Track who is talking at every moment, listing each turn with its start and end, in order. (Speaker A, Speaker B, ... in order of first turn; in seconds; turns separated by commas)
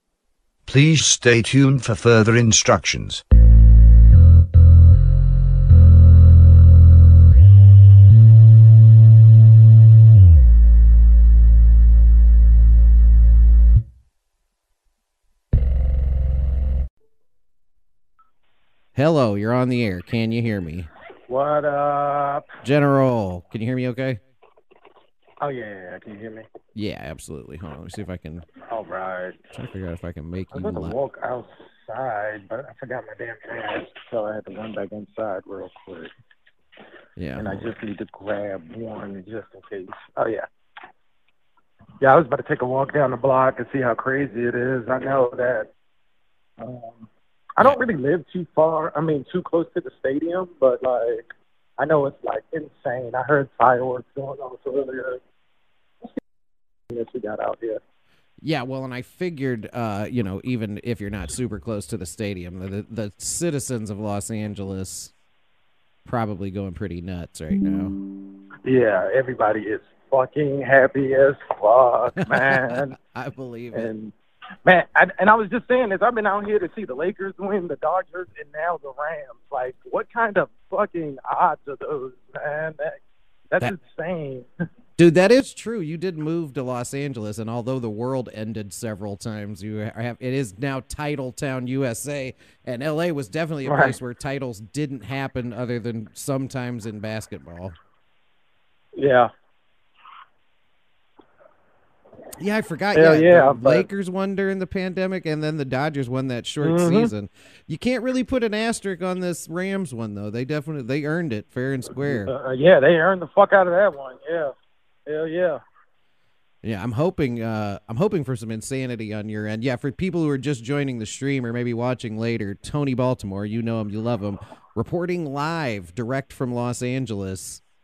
Speaker A: 0.7-3.2, Speaker B: 18.9-20.9, Speaker C: 21.3-22.5, Speaker B: 22.6-24.2, Speaker C: 25.4-26.5, Speaker B: 26.8-28.5, Speaker C: 28.6-29.4, Speaker B: 29.5-31.0, Speaker C: 30.5-36.1, Speaker B: 37.2-37.7, Speaker C: 37.4-40.5, Speaker C: 42.0-45.7, Speaker C: 46.6-55.2, Speaker C: 56.9-57.8, Speaker B: 58.4-65.1, Speaker B: 66.0-68.0, Speaker C: 68.7-73.0, Speaker B: 72.1-73.9, Speaker C: 73.7-74.1, Speaker C: 74.7-83.0, Speaker C: 83.5-84.5, Speaker B: 85.0-97.8, Speaker C: 93.7-94.0, Speaker C: 99.0-99.3, Speaker B: 102.4-112.3, Speaker C: 102.9-103.9, Speaker C: 106.6-107.1, Speaker C: 112.0-114.5, Speaker C: 115.1-115.6, Speaker B: 116.6-127.6